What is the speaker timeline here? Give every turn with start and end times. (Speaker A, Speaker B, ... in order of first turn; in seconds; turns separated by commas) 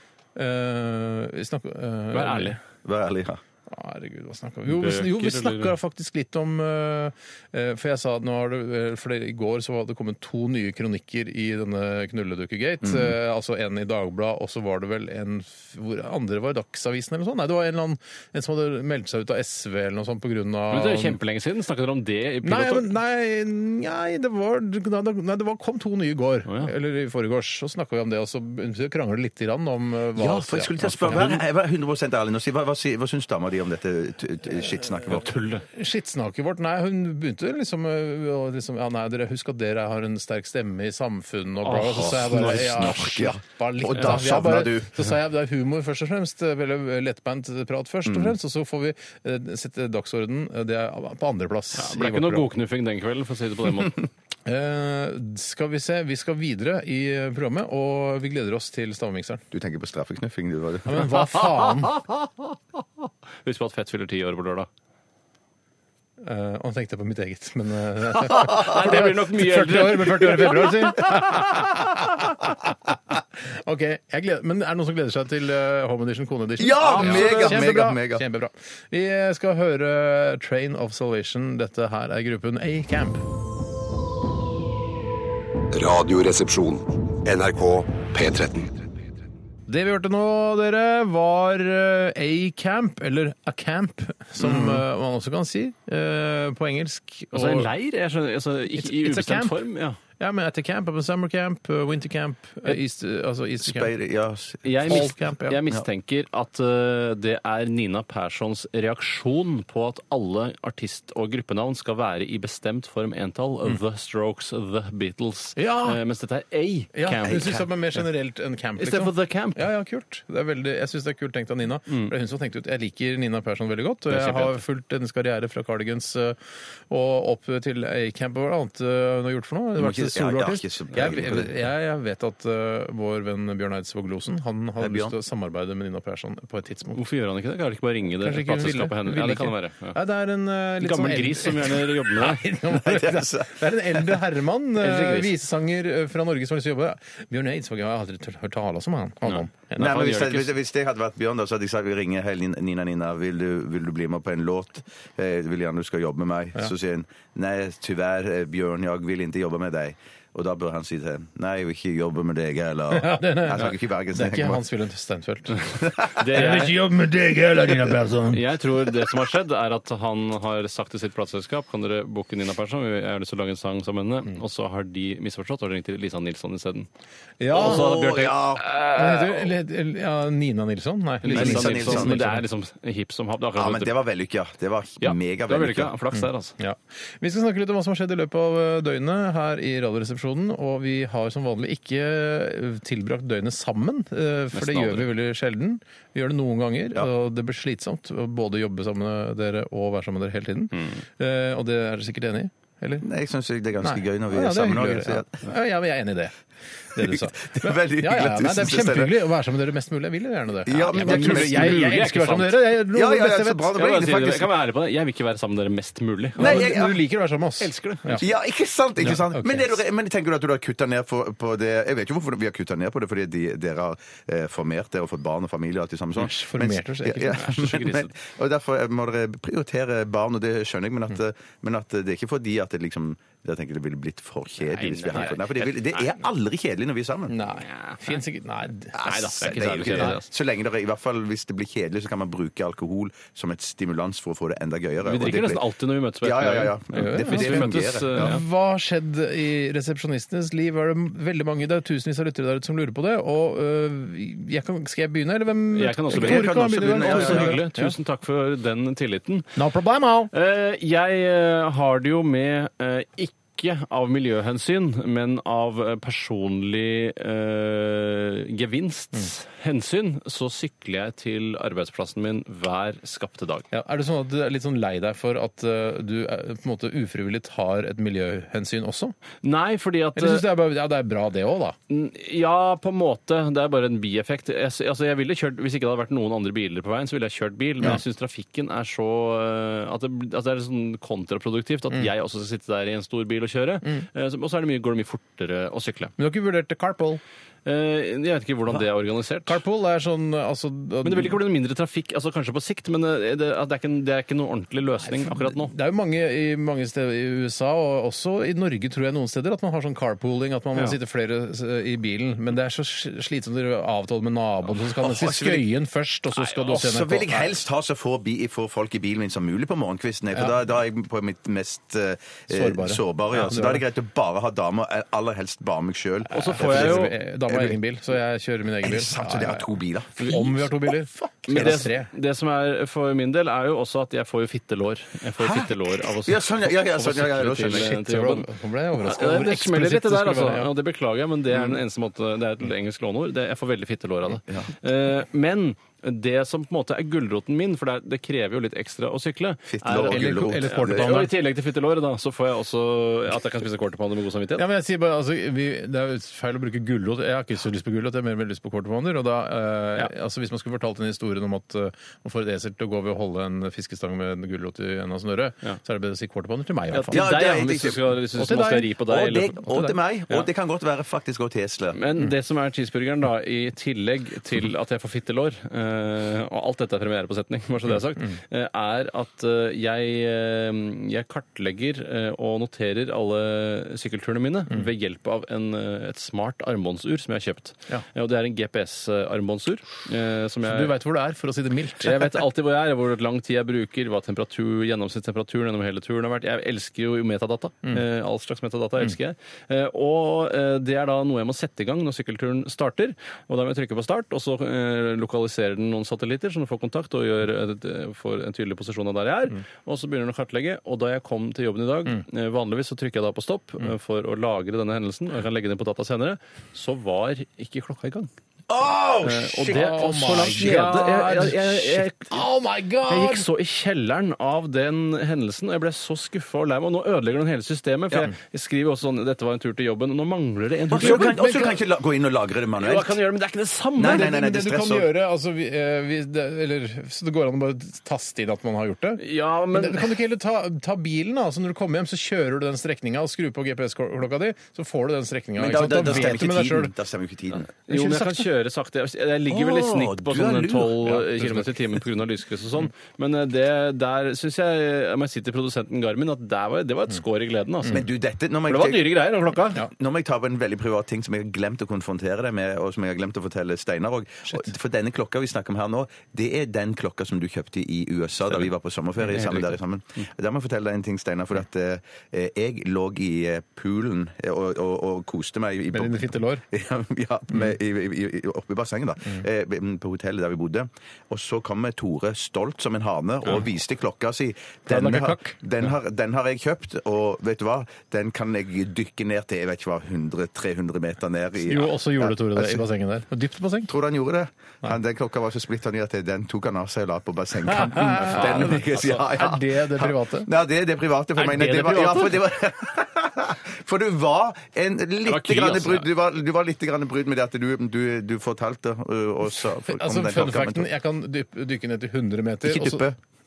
Speaker A: 0.4-2.6, Speaker B: 2.1-2.6, Speaker C: 2.8-3.4, Speaker A: 3.7-21.2, Speaker B: 4.7-5.7, Speaker C: 12.8-13.1, Speaker B: 20.7-22.9, Speaker A: 22.4-31.3, Speaker B: 26.4-26.7, Speaker C: 30.2-35.3, Speaker B: 35.1-35.6, Speaker A: 35.7-52.5, Speaker B: 41.6-43.0, Speaker C: 42.1-45.0, Speaker C: 48.1-48.3, Speaker B: 51.8-54.1, Speaker A: 54.5-59.4, Speaker C: 59.5-61.2, Speaker A: 60.9-61.9, Speaker B: 61.8-62.3, Speaker B: 63.4-64.7, Speaker A: 66.2-83.2, Speaker B: 68.1-71.0, Speaker C: 76.6-78.2, Speaker B: 76.8-77.7, Speaker D: 85.7-88.8, Speaker A: 89.7-97.7, Speaker C: 94.4-94.8, Speaker B: 97.3-100.0, Speaker A: 98.8-99.6, Speaker A: 100.2-103.9, Speaker C: 103.6-105.0, Speaker B: 104.7-117.6, Speaker A: 104.9-105.6, Speaker A: 115.6-116.0, Speaker A: 116.9-126.4, Speaker C: 117.2-117.7, Speaker B: 118.8-119.7, Speaker B: 124.1-124.6, Speaker A: 126.9-137.0, Speaker C: 129.8-131.7, Speaker C: 134.8-135.2, Speaker B: 136.9-139.9, Speaker A: 138.2-149.9, Speaker B: 140.8-142.4, Speaker C: 142.7-144.2, Speaker B: 144.8-145.3, Speaker B: 149.3-150.5, Speaker C: 149.8-164.6, Speaker A: 162.9-165.6, Speaker B: 166.2-166.8, Speaker A: 166.3-168.4, Speaker B: 168.3-176.9, Speaker A: 177.4-178.0, Speaker B: 177.5-179.5, Speaker C: 177.5-178.7, Speaker A: 178.9-182.4, Speaker B: 181.2-184.0, Speaker C: 181.3-182.2, Speaker C: 183.6-185.9, Speaker B: 185.0-186.5, Speaker A: 186.1-203.1, Speaker B: 194.5-195.1, Speaker C: 203.0-205.4, Speaker A: 203.8-206.3, Speaker A: 206.9-213.7, Speaker C: 207.0-209.2, Speaker C: 210.7-211.9, Speaker B: 210.9-212.6, Speaker C: 212.9-214.5, Speaker B: 213.7-216.8, Speaker C: 216.4-217.0, Speaker A: 216.4-218.2, Speaker B: 217.6-218.2, Speaker C: 218.2-237.4, Speaker A: 219.0-219.7, Speaker A: 226.2-227.4, Speaker B: 227.3-228.1, Speaker B: 234.6-236.2, Speaker A: 237.3-240.2, Speaker B: 237.6-238.2, Speaker C: 238.9-245.6, Speaker B: 239.0-240.3, Speaker B: 245.1-248.4, Speaker C: 246.2-248.3, Speaker A: 246.9-257.9, Speaker B: 255.7-259.5, Speaker C: 256.1-257.6, Speaker A: 259.6-260.3, Speaker B: 260.3-273.7, Speaker A: 273.7-279.1, Speaker B: 279.4-280.5, Speaker A: 280.2-281.8, Speaker B: 281.9-296.1, Speaker A: 296.2-297.2, Speaker B: 297.7-299.6, Speaker A: 299.5-301.3, Speaker B: 301.0-305.7, Speaker A: 305.1-317.6, Speaker C: 315.0-315.7, Speaker C: 316.7-327.8, Speaker A: 322.5-323.8, Speaker B: 326.3-327.1, Speaker A: 326.3-332.1, Speaker C: 328.8-331.9, Speaker B: 331.5-354.6, Speaker C: 335.4-337.9, Speaker A: 337.6-340.7, Speaker C: 341.5-341.8, Speaker C: 349.7-351.3, Speaker A: 350.1-351.3, Speaker A: 354.6-367.3, Speaker B: 366.9-369.6, Speaker C: 367.1-368.1, Speaker A: 368.4-368.9, Speaker C: 369.1-372.0, Speaker A: 369.7-369.9, Speaker B: 371.9-390.9, Speaker A: 390.7-392.4, Speaker B: 392.0-418.3, Speaker C: 418.7-421.0, Speaker B: 419.2-422.4, Speaker A: 419.7-423.4, Speaker B: 423.1-431.4, Speaker C: 430.9-433.2, Speaker A: 430.9-431.8, Speaker B: 432.8-434.3, Speaker C: 433.9-435.1, Speaker A: 434.0-446.9, Speaker B: 439.2-440.2, Speaker C: 445.6-447.7, Speaker B: 447.5-458.1, Speaker A: 447.9-448.4, Speaker C: 449.5-451.2, Speaker A: 451.1-451.7, Speaker C: 457.9-459.2, Speaker B: 458.7-459.8, Speaker C: 459.8-492.8, Speaker A: 475.9-476.6, Speaker A: 484.9-485.6, Speaker A: 491.7-493.9, Speaker C: 493.9-510.9, Speaker A: 497.7-500.5, Speaker B: 498.3-499.2, Speaker A: 501.4-502.3, Speaker B: 505.3-506.1, Speaker A: 509.8-513.1, Speaker C: 512.6-513.2